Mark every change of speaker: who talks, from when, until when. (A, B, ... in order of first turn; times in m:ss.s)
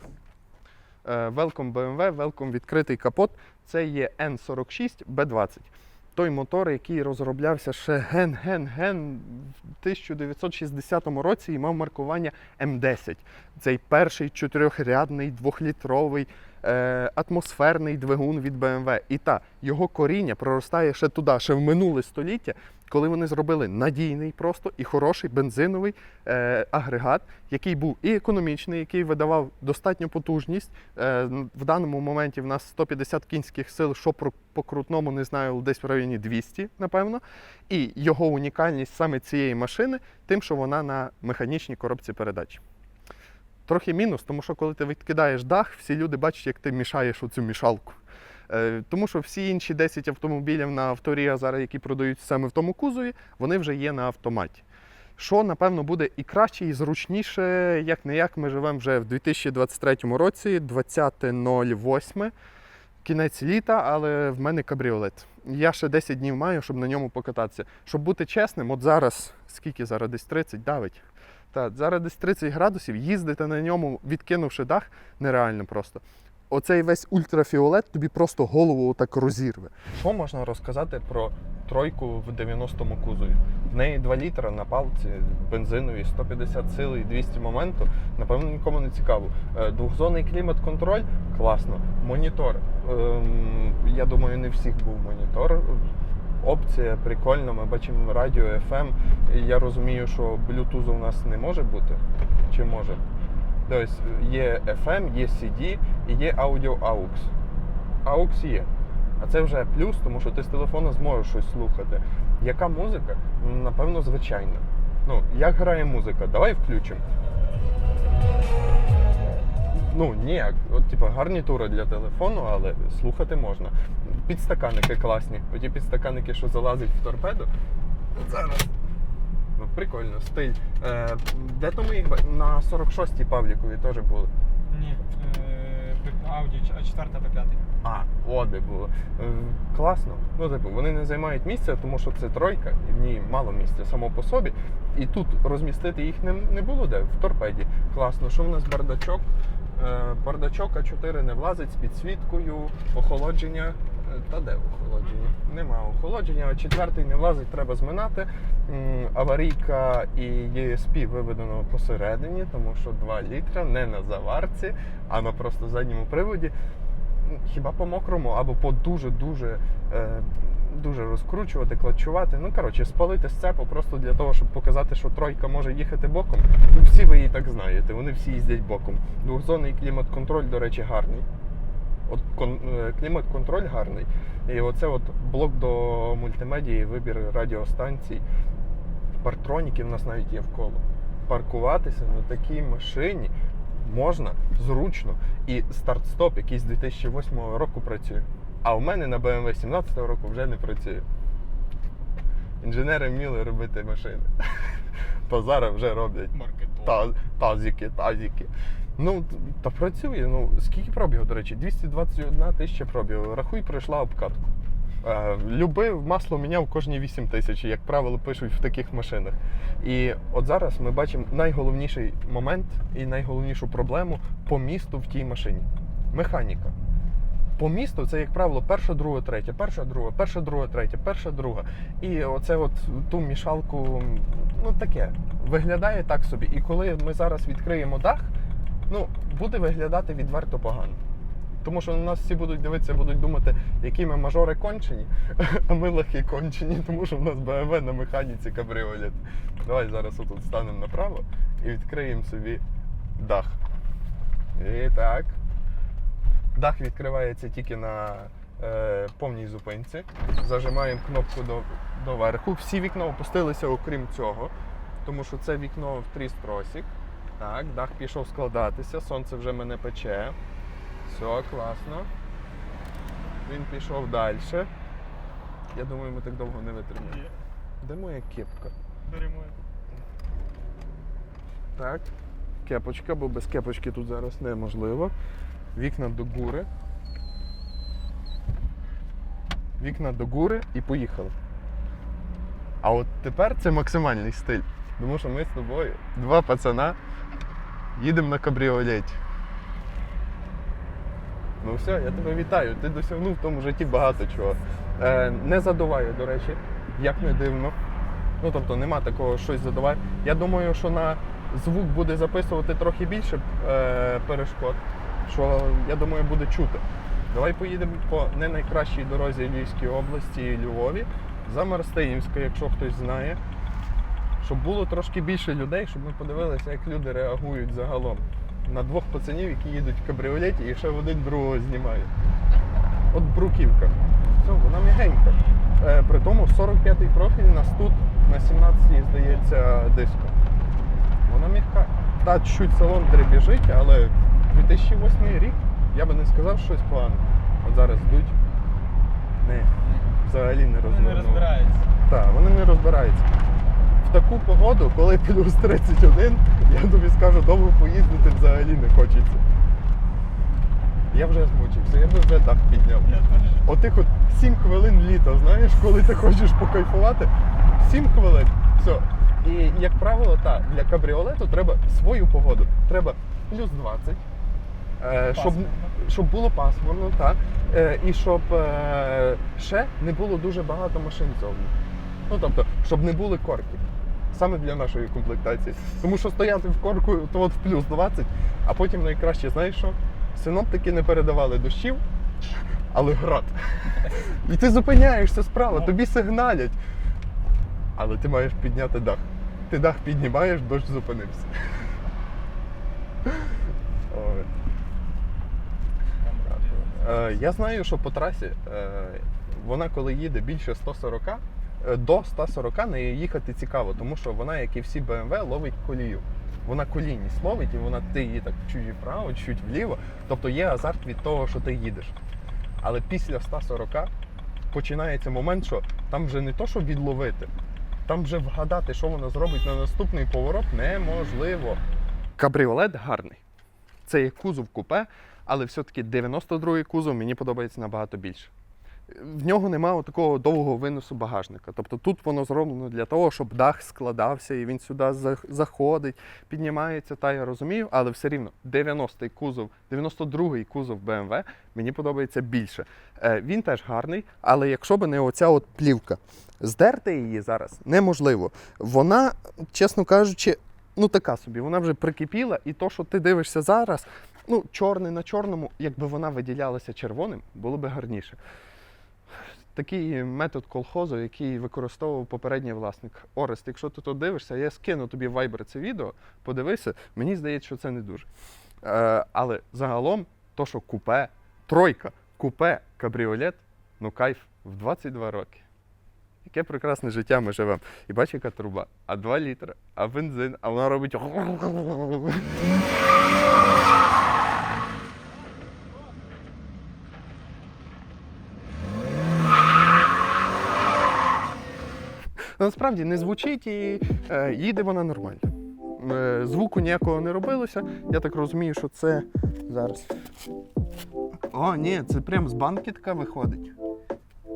0:01.0-0:42.6 A
0:43.6-0:54.6 A
0:55.2-1:02.3 A
1:03.0-1:11.0 A
1:11.5-1:43.0 A
1:42.7-1:43.2 B
1:43.7-1:47.3 A
1:48.0-1:57.0 A
1:59.7-2:07.5 A
2:08.1-2:08.7 A
2:09.6-2:14.3 A
2:14.7-2:17.6 B
2:17.8-2:46.5 A
2:47.2-3:01.2 A
3:02.1-3:08.2 A
3:09.2-3:21.0 A
3:22.6-3:34.4 A
3:26.3-3:26.9 B
3:35.0-3:46.7 A
3:47.6-3:58.3 A
3:58.9-4:01.0 A
4:01.6-4:12.6 A
4:13.2-4:13.6 A
4:14.5-4:15.4 A
4:16.5-4:24.5 A
4:25.0-4:30.4 A
4:31.0-4:32.1 A
4:33.4-4:34.7 A
4:35.7-4:37.2 A
4:37.0-4:37.4 B
4:37.8-4:38.7 A
4:39.1-4:39.6 B
4:41.8-4:42.1 A
4:42.6-4:45.1 A
4:45.7-4:46.7 A
4:49.8-4:51.3 A
4:52.8-4:57.0 A
4:58.0-4:59.2 A
5:01.6-5:07.8 A
5:08.4-5:23.4 A
5:24.4-5:32.1 A
5:33.1-5:40.3 A
5:41.3-5:48.4 A
5:49.4-5:51.5 A
5:49.8-5:50.1 B
5:50.8-5:51.9 B
5:52.0-5:53.3 A
5:54.0-5:59.4 A
6:01.1-6:03.1 A
6:03.0-6:03.7 B
6:03.6-6:14.2 A
6:15.0-6:21.7 A
6:15.3-6:16.0 B
6:22.3-6:32.0 A
6:32.9-6:36.8 A
6:38.0-6:41.5 A
6:43.2-6:44.5 A
6:46.2-6:47.4 B
6:46.8-7:02.1 A
7:02.8-7:04.1 A
7:04.7-7:07.5 A
7:08.0-7:11.8 A
7:12.4-7:13.4 A
7:14.0-7:18.5 A
7:19.1-7:48.4 A
7:49.7-7:58.3 A
7:58.8-8:05.6 A
8:06.4-8:12.5 A
8:22.6-8:30.1 A
8:31.5-8:33.7 A